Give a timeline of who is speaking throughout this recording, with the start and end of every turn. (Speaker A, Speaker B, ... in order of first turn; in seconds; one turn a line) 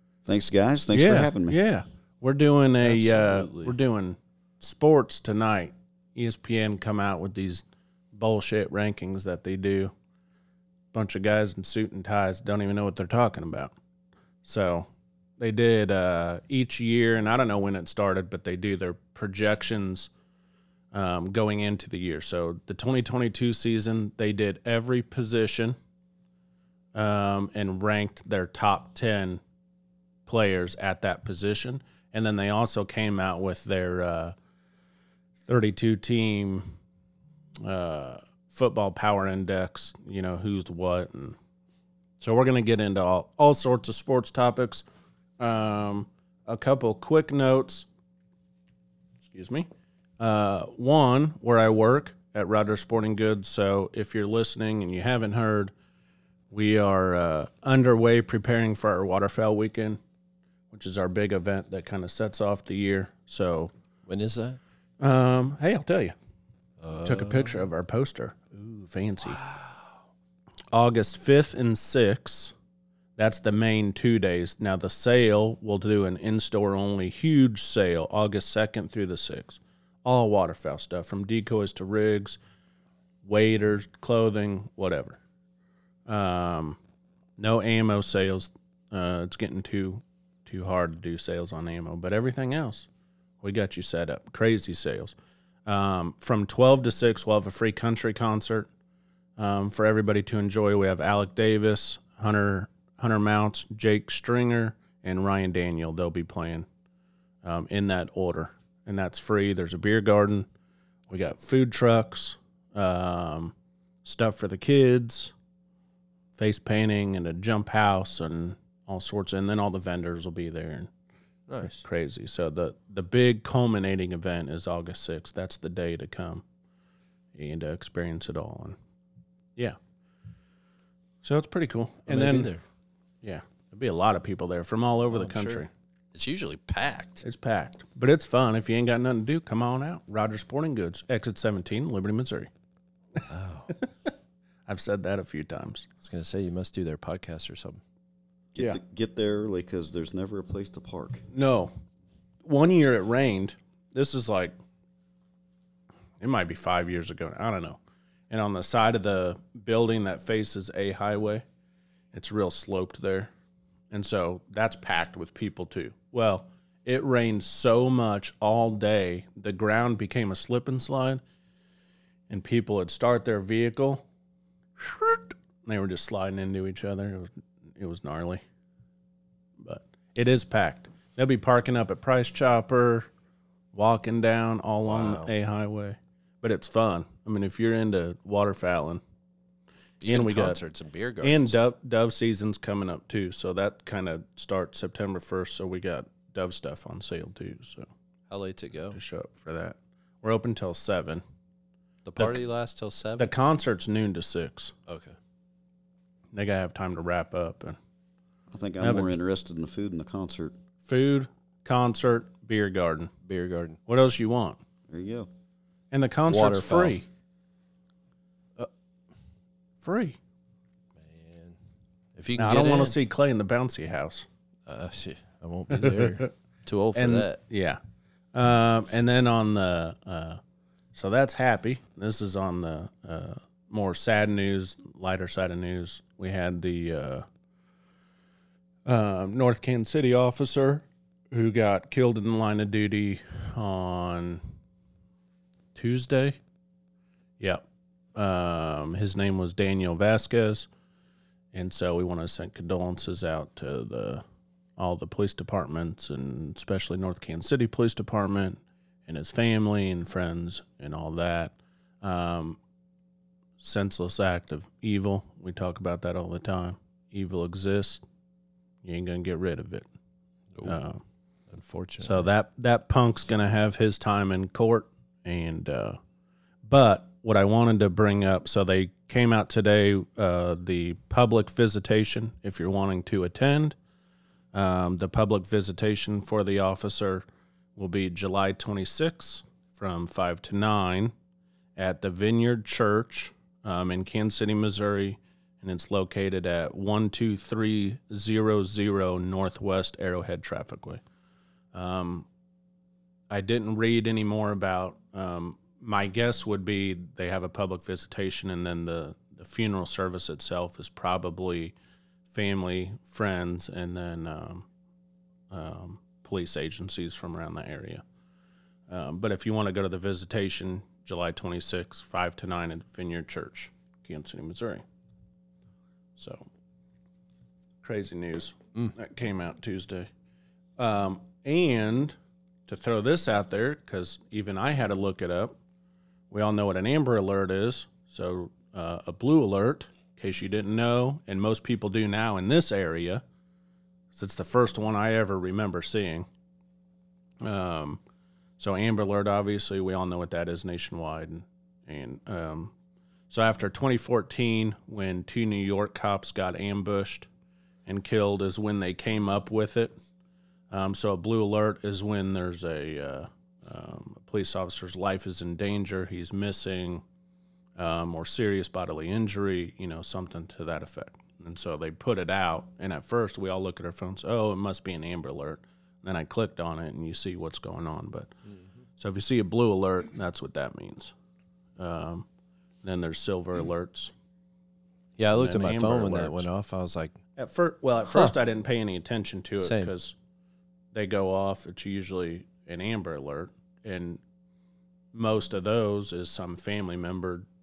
Speaker A: 0.2-1.6
Speaker B: 0.9-9.9
Speaker C: 2.8-3.7
Speaker B: 10.9-13.8
Speaker B: 14.4-20.1
Speaker B: 20.9-25.8
Speaker B: 26.9-29.4
Speaker B: 30.3-34.4
Speaker B: 35.5-36.7
Speaker B: 37.6-41.4
Speaker B: 42.2-44.9
Speaker B: 45.4-47.9
Speaker B: 49.3-49.7
Speaker B: 50.2-55.7
Speaker B: 56.5-60.0
Speaker B: 60.7-63.7
Speaker C: 64.1-64.6
Speaker B: 65.0-66.2
Speaker C: 66.8-67.6
Speaker B: 67.0-69.4
Speaker B: 70.7-72.5
Speaker B: 73.2-82.4
Speaker B: 83.2-85.2
Speaker B: 86.1-86.8
Speaker B: 87.4-92.9
Speaker B: 93.4-95.2
Speaker B: 95.7-98.7
Speaker B: 99.4-106.7
Speaker B: 107.4-110.5
Speaker B: 111.1-115.3
Speaker B: 116.4-120.9
Speaker C: 121.5-121.8
Speaker B: 121.6-126.4
Speaker B: 127.3-128.8
Speaker B: 131.2-132.5
Speaker C: 132.1-132.6
Speaker B: 133.2-135.7
Speaker C: 135.1-135.6
Speaker C: 136.1-137.2
Speaker B: 137.2-142.5
Speaker C: 143.3-143.7
Speaker B: 143.8-144.1
Speaker B: 144.7-145.9
Speaker C: 146.0-147.8
Speaker A: 148.5-151.2
Speaker B: 151.3-151.7
Speaker B: 152.4-154.6
Speaker B: 156.2-161.4
Speaker B: 162.1-163.3
Speaker B: 163.9-171.2
Speaker B: 172.3-174.0
Speaker B: 174.8-178.4
Speaker B: 179.6-183.1
Speaker B: 183.7-189.0
Speaker C: 184.9-185.3
Speaker C: 190.0-191.6
Speaker B: 190.1-190.6
Speaker B: 191.2-197.9
Speaker C: 198.3-199.0
Speaker B: 198.9-201.2
Speaker C: 202.1-203.3
Speaker B: 202.2-202.4
Speaker B: 203.2-204.7
Speaker C: 204.9-205.2
Speaker B: 206.3-207.8
Speaker A: 208.5-210.5
Speaker B: 208.8-209.2
Speaker B: 210.8-213.1
Speaker C: 213.2-213.8
Speaker B: 213.9-214.6
Speaker A: 214.9-215.3
Speaker B: 215.9-217.1
Speaker C: 216.3-216.9
Speaker B: 219.8-220.2
Speaker C: 221.0-221.6
Speaker C: 222.2-222.9
Speaker B: 222.4-224.3
Speaker C: 224.7-227.4
Speaker B: 225.7-226.3
Speaker B: 226.9-227.8
Speaker B: 228.3-230.4
Speaker B: 230.9-237.2
Speaker B: 238.8-244.4
Speaker B: 245.8-246.4
Speaker B: 248.2-250.7
Speaker B: 251.5-254.2
Speaker B: 254.8-262.6
Speaker B: 263.6-268.0
Speaker B: 268.8-269.9
Speaker B: 270.6-271.0
Speaker C: 271.5-272.3
Speaker B: 272.0-276.0
Speaker B: 276.7-283.8
Speaker B: 284.5-287.2
Speaker B: 287.8-291.1
Speaker B: 291.8-301.0
Speaker B: 301.7-302.3
Speaker B: 303.3-311.8
Speaker B: 312.3-314.7
Speaker B: 315.5-318.0
Speaker B: 318.9-324.8
Speaker B: 326.2-326.5
Speaker B: 327.8-330.1
Speaker B: 330.8-332.2
Speaker B: 332.7-335.6
Speaker B: 336.3-343.2
Speaker B: 344.1-346.3
Speaker B: 347.4-348.0
Speaker B: 348.6-352.7
Speaker B: 353.3-357.3
Speaker B: 357.9-359.9
Speaker B: 360.7-367.0
Speaker B: 367.8-378.3
Speaker B: 379.0-381.1
Speaker B: 381.8-382.3
Speaker B: 382.8-384.1
Speaker C: 385.2-387.1
Speaker B: 385.3-386.5
Speaker B: 387.4-390.1
Speaker C: 389.6-389.9
Speaker B: 390.9-394.2
Speaker B: 395.1-397.5